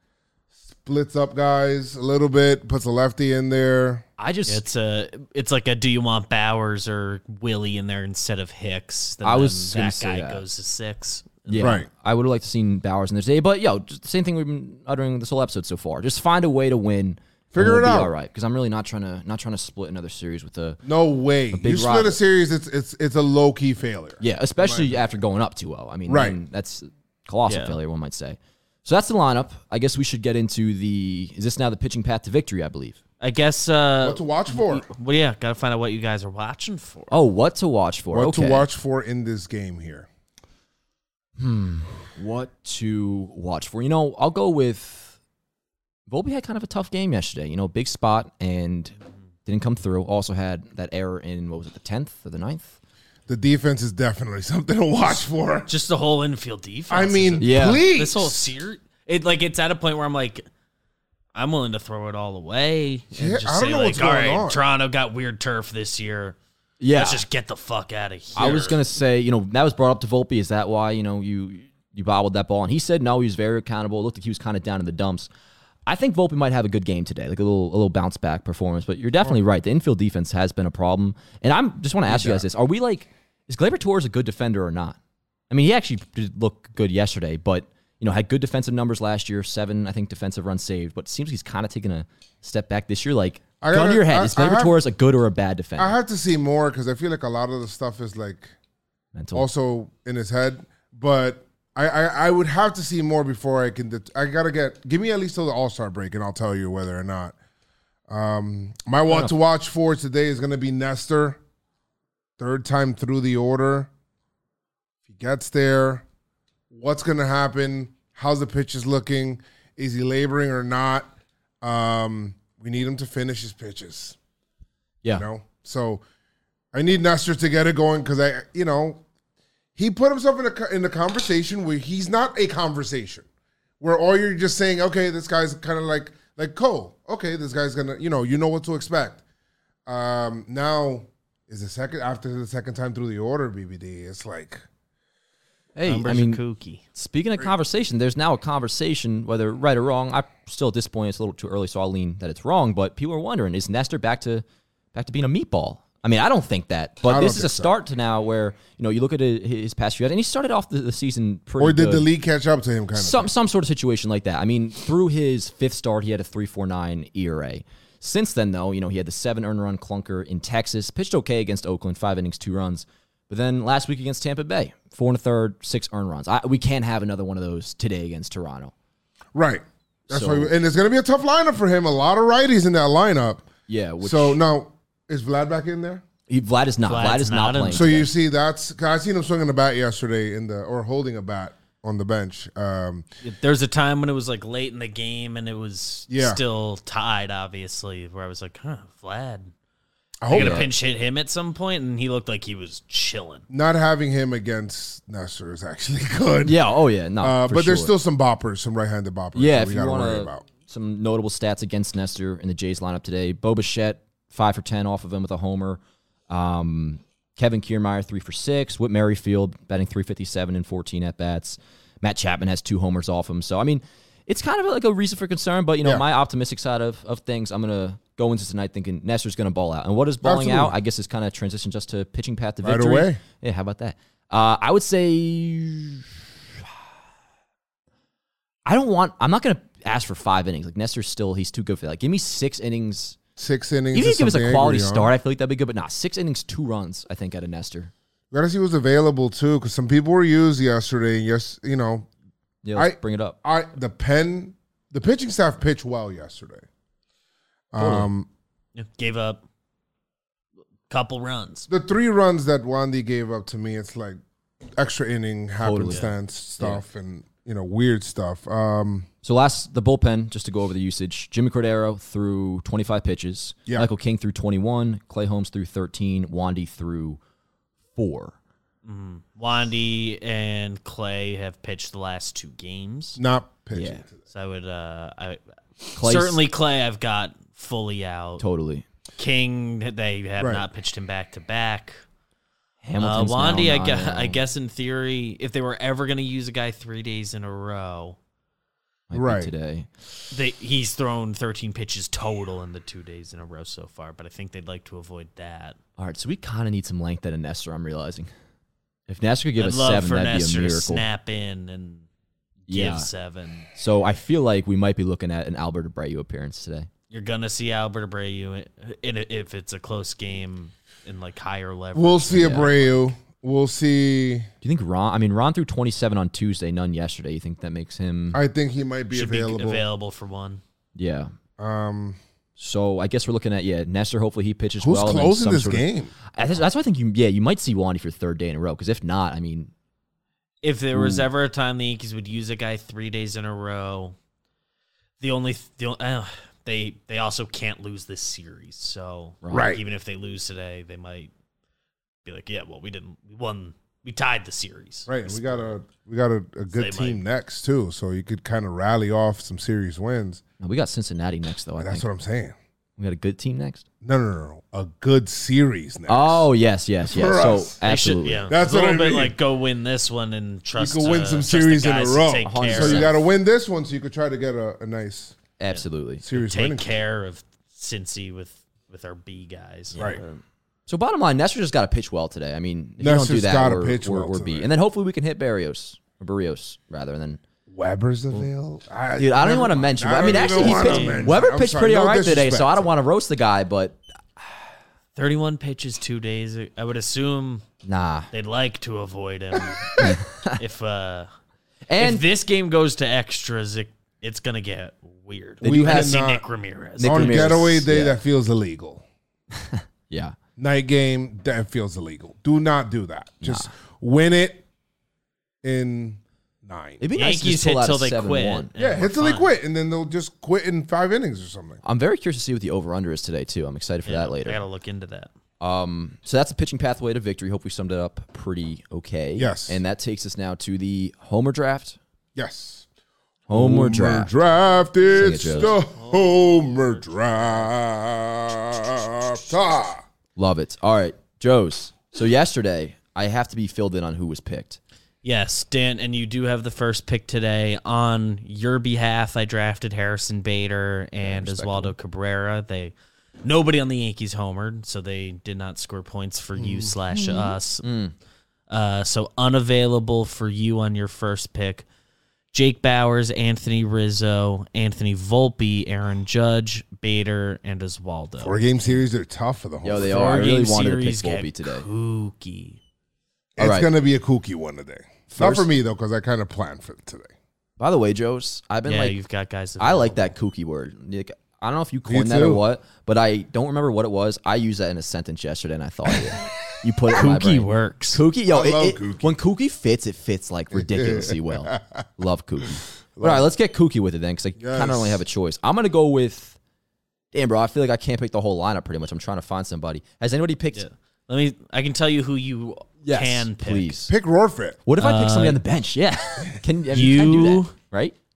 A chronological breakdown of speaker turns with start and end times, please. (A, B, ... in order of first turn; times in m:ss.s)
0:00.7-0:04.0 A
0:04.2-0:04.6 B
0:04.5-0:11.8 C
0:09.2-0:10.4 B
0:11.5-0:20.8 B
0:11.6-0:11.9 A
0:17.5-0:18.1 A
0:20.8-0:25.0 A
0:21.5-0:22.2 B
0:24.2-0:33.0 B
0:26.1-0:26.4 A
0:27.5-0:27.8 C
0:33.2-0:37.1 C
0:34.0-0:34.9 A
0:37.1-0:38.7 B
0:38.1-0:40.1 A
0:41.4-0:45.2 B
0:46.1-0:48.9 B
0:49.4-0:52.8 B
0:53.3-0:55.7 A
0:55.7-1:00.4 C
0:56.9-0:58.4 A
0:57.4-0:57.8 B
1:01.3-1:06.4 C
1:03.1-1:04.6 A
1:06.8-1:07.2 B
1:06.9-1:08.8 C
1:08.4-1:15.3 B
1:15.8-1:25.0 B
1:22.1-1:22.4 A
1:25.5-1:36.0 B
1:33.6-1:34.8 A
1:35.8-1:38.5 A
1:39.1-1:39.5 B
1:39.3-1:47.4 A
1:48.1-1:51.4 A
1:49.1-1:49.3 B
1:52.4-1:53.9 A
1:55.1-1:56.0 A
1:56.7-2:01.1 A
2:01.6-2:04.2 A
2:05.1-2:06.0 A
2:06.7-2:09.0 A
2:09.8-2:13.3 A
2:13.8-2:19.2 A
2:19.8-2:24.6 A
2:25.7-2:26.4 B
2:25.8-2:26.8 C
2:26.9-2:42.1 B
2:37.0-2:37.7 A
2:41.6-2:43.3 A
2:43.0-2:58.7 B
2:59.3-3:03.5 A
3:00.1-3:00.5 B
3:03.7-3:04.4 B
3:04.0-3:06.0 A
3:06.3-3:08.1 B
3:06.8-3:08.0 C
3:07.7-3:13.1 A
3:13.2-3:19.5 C
3:16.1-3:16.4 A
3:20.2-3:20.7 A
3:20.3-3:23.4 C
3:20.3-3:20.7 B
3:23.5-3:26.6 A
3:26.4-3:27.9 B
3:27.2-3:30.4 A
3:29.3-3:56.1 B
3:50.2-3:50.8 A
3:52.6-3:53.2 A
3:58.6-4:03.2 B
4:03.4-4:05.1 A
4:03.9-4:07.9 B
4:08.3-4:12.1 A
4:12.6-4:13.4 B
4:12.7-4:16.6 A
4:17.7-4:18.3 A
4:17.8-4:18.1 B
4:18.7-4:19.4 C
4:20.9-4:21.7 C
4:21.7-4:24.2 A
4:24.8-4:29.1 A
4:25.6-4:26.8 B
4:29.2-4:37.2 B
4:37.9-4:38.3 B
4:38.8-4:43.2 C
4:43.2-4:44.2 A
4:43.7-4:44.0 B
4:44.3-4:48.4 C
4:46.0-4:46.4 B
4:48.4-4:48.8 B
4:49.2-4:52.0 C
4:50.4-4:50.6 A
4:52.8-4:54.4 B
4:53.0-4:58.2 C
4:59.1-4:59.9 B
4:59.1-4:59.5 A
5:00.3-5:05.8 C
5:06.0-5:08.3 B
5:09.1-5:11.0 B
5:09.6-5:12.1 C
5:12.7-5:13.7 C
5:12.7-5:13.1 B
5:13.7-5:16.9 B
5:17.1-5:22.9 C
5:21.9-5:24.5 A
5:24.6-5:28.4 B
5:28.3-5:29.8 A
5:29.1-5:30.6 C
5:31.0-5:31.3 B
5:31.6-5:32.2 A
5:32.6-5:39.7 B
5:34.8-5:36.2 A
5:40.6-5:44.1 C
5:40.9-5:41.3 B
5:45.2-5:51.3 C
5:49.4-5:49.7 B
5:49.5-5:49.8 A
5:52.2-5:55.7 C
5:55.1-6:00.4 A
5:56.7-5:57.2 C
6:00.6-6:02.0 B
6:01.8-6:02.6 A
6:03.0-6:03.8 B
6:04.0-6:06.5 A
6:06.1-6:08.5 B
6:07.0-6:07.8 A
6:07.8-6:13.1 C
6:08.5-6:09.4 A
6:10.8-6:15.4 A
6:12.4-6:13.2 B
6:15.6-6:16.2 B
6:15.7-6:20.4 C
6:16.2-6:17.0 A
6:19.9-6:20.2 B
6:20.9-6:27.4 B
6:23.0-6:24.7 A
6:27.7-6:32.9 A
6:29.2-6:34.0 B
6:30.2-6:31.4 C
6:35.2-6:37.6 C
6:37.8-6:38.3 B
6:38.3-6:41.3 C
6:40.0-6:40.6 B
6:41.9-6:42.2 B
6:42.0-6:47.8 C
6:45.6-6:46.2 B
6:45.6-6:46.4 A
6:47.0-6:48.2 B
6:47.0-6:49.0 A
6:49.5-6:50.4 B
6:50.6-6:54.6 A
6:53.4-6:53.7 B
6:55.6-6:57.0 A
6:57.0-6:58.7 B
6:57.2-6:59.5 C
6:58.8-7:01.8 A
7:01.8-7:04.6 B
7:04.0-7:05.3 C
7:05.6-7:12.0 B
7:09.4-7:09.8 A
7:12.4-7:12.9 A
7:13.5-7:14.3 B
7:13.5-7:20.0 A
7:15.0-7:17.7 C
7:15.1-7:15.8 B
7:20.4-7:24.8 B
7:25.2-7:37.8 C
7:31.2-7:31.9 B
7:36.6-7:37.5 A
7:37.8-7:38.1 B
7:38.7-7:41.8 C
7:42.5-7:48.6 C
7:48.4-7:50.5 A
7:49.8-7:51.8 B
7:50.0-7:52.8 C
7:53.6-7:57.3 A
7:53.6-7:53.9 B
7:55.3-7:55.7 B
7:57.8-7:59.1 B
7:58.8-8:00.3 C
7:59.8-8:16.6 B
8:02.1-8:02.6 A
8:07.1-8:08.2 C
8:08.5-8:09.4 A
8:10.7-8:12.0 A
8:13.1-8:13.5 A
8:14.6-8:15.2 A
8:17.3-8:20.8 B
8:20.7-8:24.0 C
8:23.0-8:24.1 B
8:24.1-8:24.8 A
8:24.8-8:28.1 B
8:25.0-8:25.6 C
8:26.9-8:27.7 C